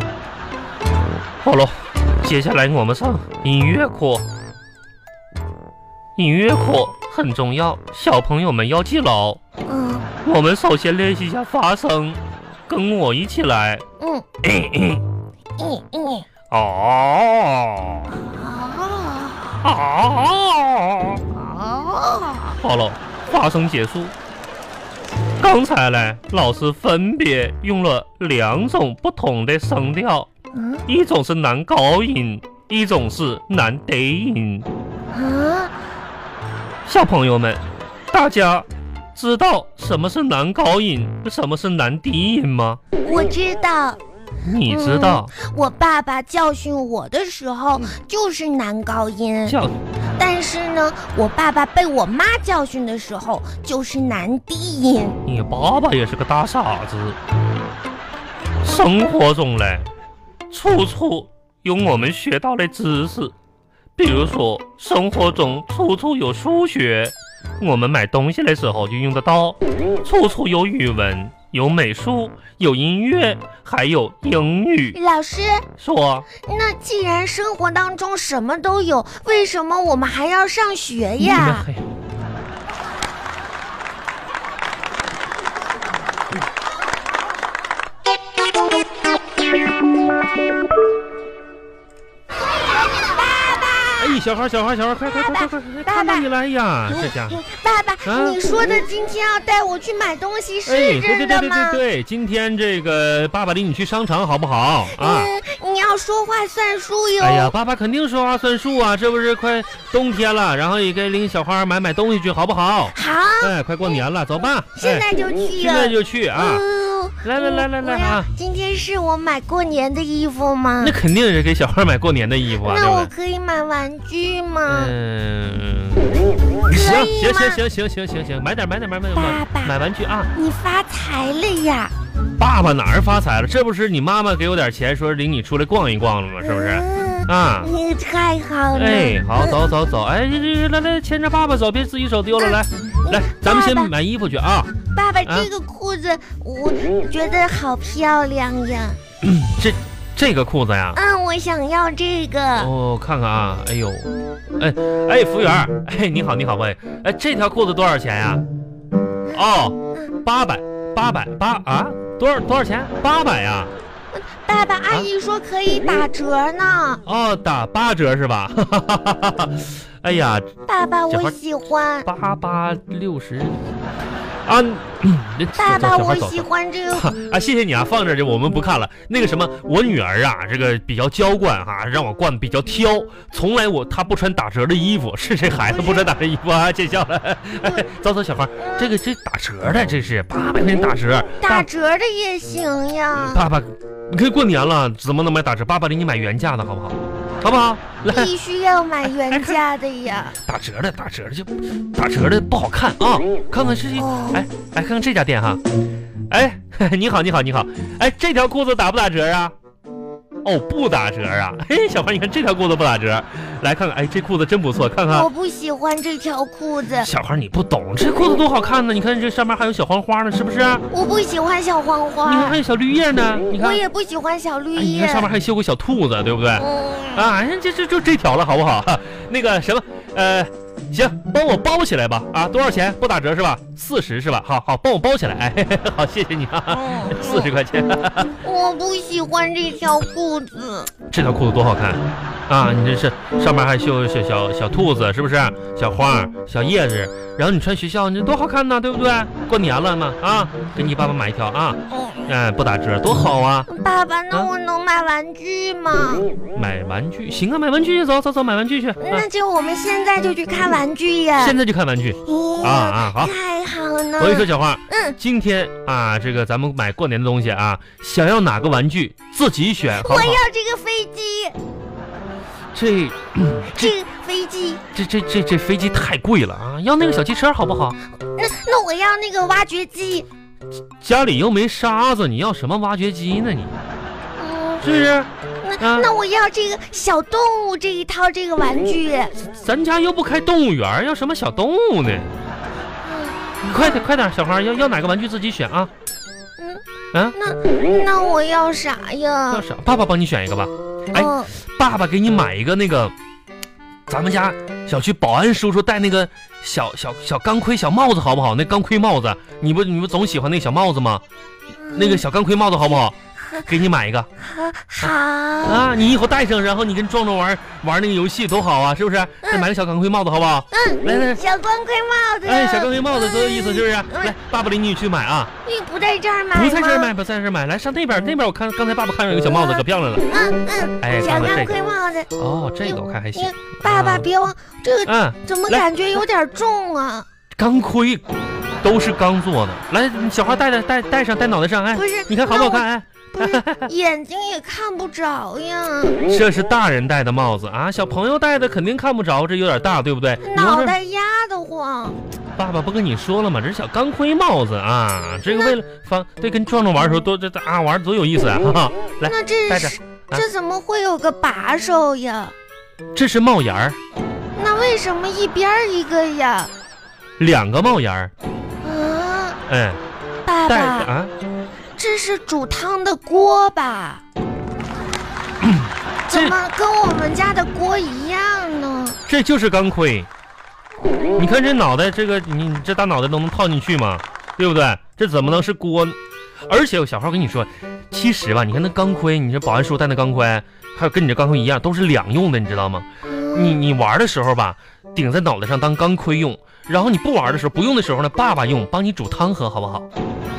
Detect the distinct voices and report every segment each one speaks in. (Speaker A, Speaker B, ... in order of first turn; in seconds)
Speaker A: 1.4-4.2, 6.2-9.4, 10.2-13.8, 14.4-15.0, 16.5-18.1, 19.6-21.2, 22.6-24.1, 25.4-30.3, 30.9-34.7, 36.9-42.8, 44.5-45.3, 49.5-49.8, 55.3-57.2, 58.6-59.9, 60.5-63.3, 64.0-75.0, 75.8-76.3, 81.2-81.9, 94.0-97.4, 98.0-98.4, 100.7-105.3, 107.2-116.6, 117.2-118.3, 120.8-123.1, 124.7-130.3, 132.4-137.7, 138.7-144.7, 145.2-145.5, 149.2-151.0, 152.6-158.4, 159.3-163.7, 167.0-170.5, 172.1-173.7, 174.4-191.7, 193.2-198.3, 199.3-199.6, 200.4-205.6, 206.3-209.5, 210.4-215.3, 217.0-220.8, 222.2-223.8, 224.8-238.4, 241.1-253.7, 256.5-259.3, 261.4-263.4, 264.2-270.4, 272.7-274.0, 274.9-278.0, 281.0-283.7, 284.8-286.1, 289.4-292.3, 293.6-295.9, 299.5-303.1, 304.1-311.2, 311.9-314.3, 315.6-321.4, 322.4-325.5, 326.5-330.3, 331.0-331.8, 332.4-334.3, 335.1-335.9, 337.6-343.9, 346.3-351.0, 352.6-360.4, 363.1-364.0, 367.4-368.3, 369.7-370.0, 370.7-371.3, 375.6-376.6, 379.3-380.3, 381.4-386.2, 386.7-400.1
Speaker B: 9.7-10.1, 14.0-14.3, 15.6-16.3, 18.1-19.6, 21.3-22.6, 30.5-30.9, 35.1-35.7, 43.0-44.0, 44.6-49.6, 50.2-55.2, 74.9-75.7, 76.4-81.7, 93.0-94.2, 95.1-96.3, 96.9-101.8, 104.9-107.5, 112.9-113.5, 114.8-121.0, 122.6-125.0, 126.7-127.6, 129.1-129.8, 130.3-131.9, 136.4-139.6, 142.4-143.9, 144.9-149.0, 150.9-152.7, 159.3-160.1, 164.1-167.0, 170.7-172.1, 175.6-177.1, 185.7-186.1, 188.6-188.9, 191.4-193.4, 198.1-200.4, 204.0-204.4, 215.1-217.1, 220.9-222.6, 223.5-225.3, 226.6-227.3, 236.7-237.5, 238.4-240.9, 251.9-252.3, 253.7-256.3, 259.0-261.6, 262.2-265.2, 270.0-271.6, 273.7-274.8, 278.4-280.3, 284.4-285.0, 285.6-289.4, 293.0-293.4, 297.3-299.6, 301.1-301.5, 311.8-312.2, 314.4-315.9, 320.7-324.3, 325.6-327.1, 329.5-332.3, 332.8-337.3, 341.9-346.2, 350.4-352.2, 359.2-362.6, 364.5-366.7, 368.8-369.6, 370.4-371.1, 372.0-374.2, 376.3-379.2, 393.3-393.8